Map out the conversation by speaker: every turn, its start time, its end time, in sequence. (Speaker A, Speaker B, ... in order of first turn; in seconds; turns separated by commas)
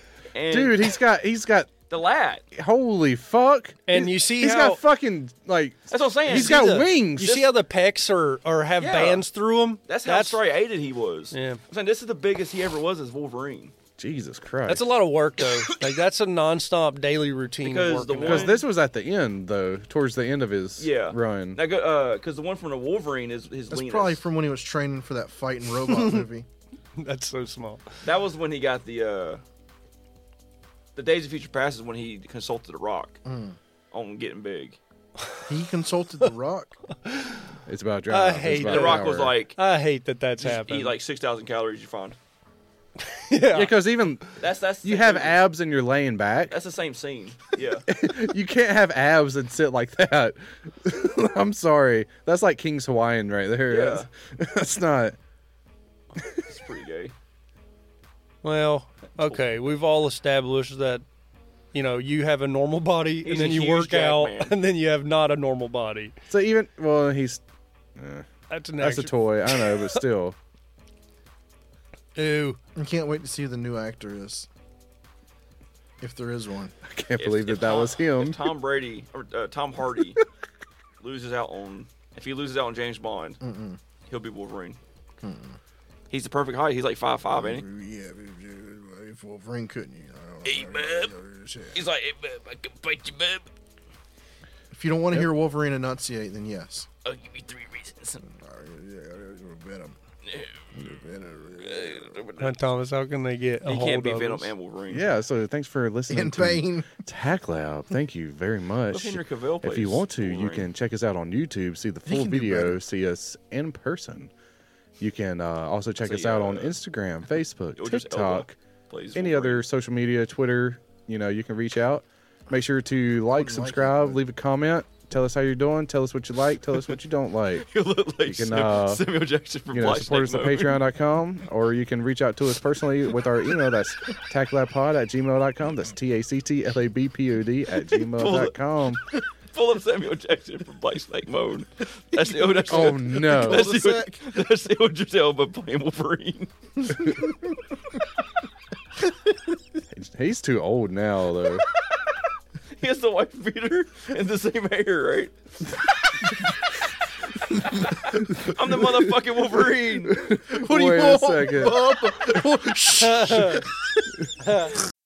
Speaker A: 0.3-0.8, Speaker B: 0.5-1.7, Speaker A: 1.9-2.4, Speaker B: 2.5-7.5, Speaker C: 3.9-4.8, Speaker A: 5.9-6.7, Speaker C: 6.3-10.4, Speaker A: 8.8-9.2, Speaker A: 9.9-13.7, Speaker C: 11.3-11.6, Speaker B: 14.0-14.9, Speaker C: 14.7-18.6, Speaker A: 17.6-18.6, Speaker B: 18.2-21.6, Speaker A: 20.8-24.2, Speaker D: 23.7-26.4, Speaker C: 25.9-26.2, Speaker C: 27.0-27.9, Speaker A: 28.0-29.4, Speaker A: 30.9-33.2, Speaker D: 33.2-33.6, Speaker A: 33.9-34.8, Speaker D: 35.5-36.8, Speaker C: 37.0-37.5, Speaker B: 37.7-39.3, Speaker C: 38.1-41.0, Speaker A: 38.6-39.6, Speaker A: 40.4-42.2, Speaker C: 43.0-43.8, Speaker B: 43.5-44.3, Speaker A: 44.4-45.4, Speaker B: 44.8-46.6, Speaker A: 46.5-47.9, Speaker B: 47.9-55.1, Speaker A: 53.7-54.1, Speaker B: 56.2-56.4, Speaker A: 56.3-57.1, Speaker C: 58.4-61.0, Speaker C: 61.7-66.1, Speaker A: 63.2-64.5, Speaker B: 66.3-67.4, Speaker B: 68.0-68.2, Speaker C: 68.5-70.0, Speaker B: 68.8-70.3, Speaker C: 72.2-72.6, Speaker D: 72.8-74.5, Speaker D: 76.0-76.7, Speaker B: 76.8-78.4, Speaker A: 77.2-80.2, Speaker A: 81.0-83.4, Speaker D: 83.4-83.8, Speaker A: 84.1-84.8, Speaker D: 85.2-85.6, Speaker A: 86.1-87.7, Speaker D: 87.3-91.8, Speaker A: 90.4-91.1, Speaker A: 91.7-93.5, Speaker D: 94.7-96.9, Speaker A: 97.0-98.2, Speaker D: 98.2-100.0, Speaker A: 100.2-100.9, Speaker D: 100.7-102.2, Speaker A: 101.6-102.5, Speaker C: 102.4-104.5, Speaker A: 103.6-105.1, Speaker B: 104.9-114.3, Speaker D: 106.1-106.9, Speaker A: 108.9-110.7, Speaker D: 112.0-112.8, Speaker B: 115.0-118.6, Speaker A: 116.0-116.7, Speaker A: 117.8-119.6, Speaker B: 119.1-127.7, Speaker D: 123.3-124.2, Speaker A: 127.6-130.8, Speaker B: 128.2-129.0, Speaker B: 129.7-139.0, Speaker A: 138.0-138.5, Speaker A: 139.1-147.0, Speaker D: 142.1-144.2, Speaker B: 142.7-143.7, Speaker B: 149.9-151.6, Speaker A: 152.8-155.3, Speaker A: 157.6-160.2, Speaker B: 160.1-162.6, Speaker D: 160.3-163.7, Speaker C: 163.0-163.6, Speaker C: 164.4-164.7